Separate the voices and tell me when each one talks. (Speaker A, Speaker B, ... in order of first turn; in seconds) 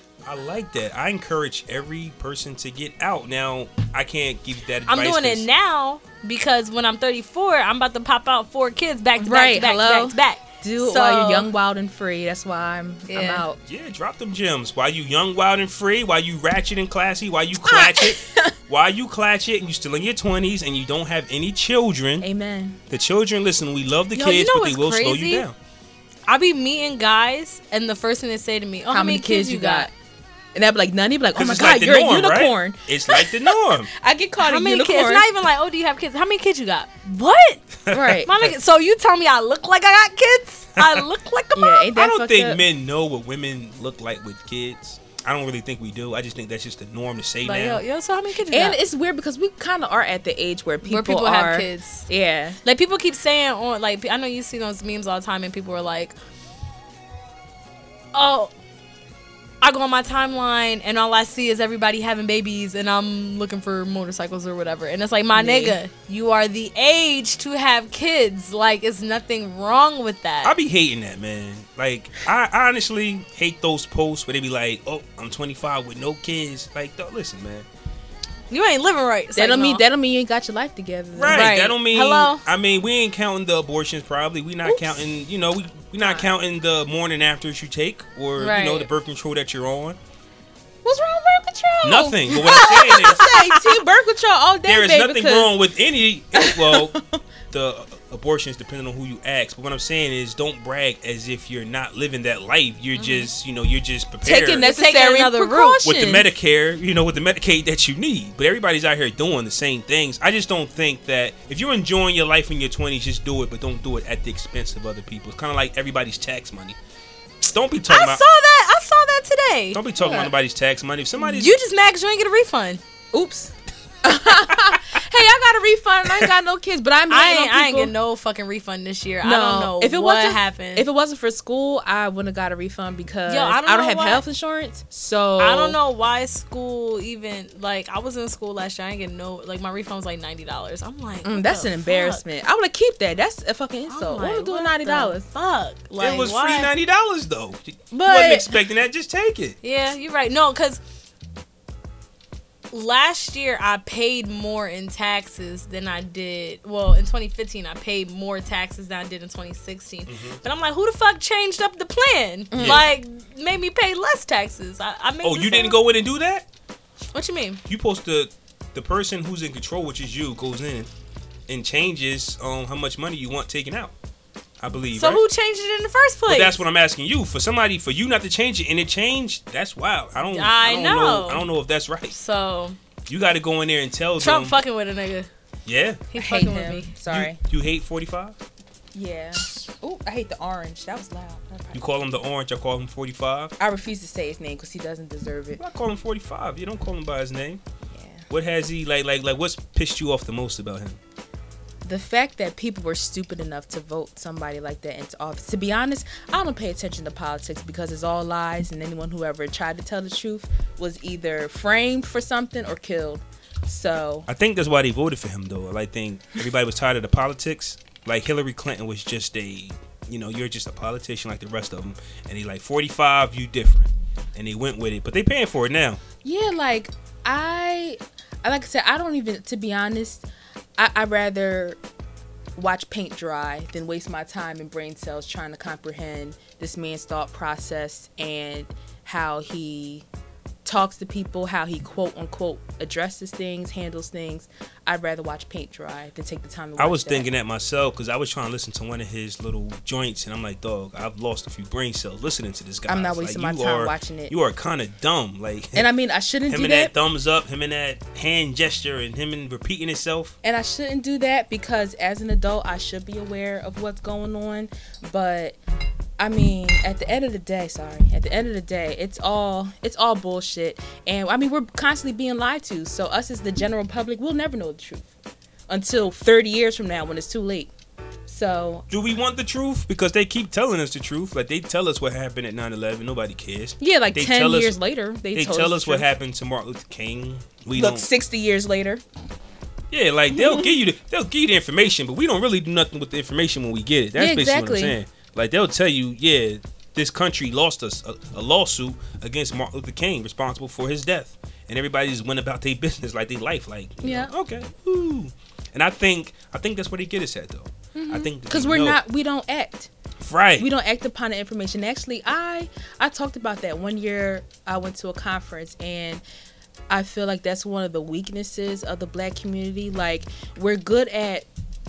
Speaker A: 0.2-5.5, 13.7-22.3, 22.9-25.6, 31.4-33.9, 37.9-38.5, 40.8-41.0, 42.0-47.8, 70.4-77.7, 81.2-90.0, 91.8-93.3, 94.7-97.0, 97.5-104.7, 105.8-116.8, 117.4-118.2, 119.7-121.6, 146.0-149.6, 160.1-160.4, 162.6-162.9, 165.2-166.4, 167.7-170.9, 171.5-173.9, 174.6-175.2, 176.3-182.2, 183.1-184.6, 185.7-186.0, 187.1-188.4, 191.7-193.5, 195.6-197.6, 198.3-201.0, 214.3-226.0, 246.8-255.9, 256.5-260.4, 278.9-284.8, 285.3-288.1, 289.9-309.0, 310.2-310.7
Speaker B: 4.9-11.5, 13.1-13.4, 24.1-25.4, 26.3-29.9, 34.4-37.6, 38.2-41.9, 47.4-48.8, 50.8-52.1, 52.6-56.1, 58.1-58.5, 59.6-70.5, 78.5-79.8, 81.3-82.4, 88.4-88.9, 104.6-105.8, 117.9-119.8, 121.3-122.8, 127.1-130.9, 133.3-134.2, 135.4-142.2, 143.9-146.7, 149.6-150.8, 152.7-165.8, 167.1-167.6, 174.9-176.6, 180.2-181.5, 182.1-182.8, 184.2-185.3, 186.1-186.9
Speaker C: 9.2-13.6, 17.6-18.5, 22.2-22.8, 28.9-29.9, 30.5-35.3, 37.9-38.3, 41.5-42.6, 48.5-52.6, 65.3-65.8, 79.3-81.5, 84.6-85.0, 86.0-86.3, 90.8-95.6, 96.3-97.2, 104.2-106.2, 120.0-120.3, 123.1-127.9, 129.2-135.8, 141.2-145.3, 147.9-148.6, 162.5-162.8, 186.2-187.4, 188.9-191.9, 193.6-195.6, 197.9-198.2, 201.8-214.3, 226.2-230.3, 230.8-231.8, 232.6-240.1, 240.7-247.3, 252.9-254.3, 255.8-256.9, 260.4-265.6, 266.2-275.1, 275.7-277.7, 278.3-278.9, 283.8-286.1, 287.7-289.0, 290.3-290.8, 294.2-295.0, 304.0-304.3, 307.9-309.9, 310.6-316.2, 316.9-321.5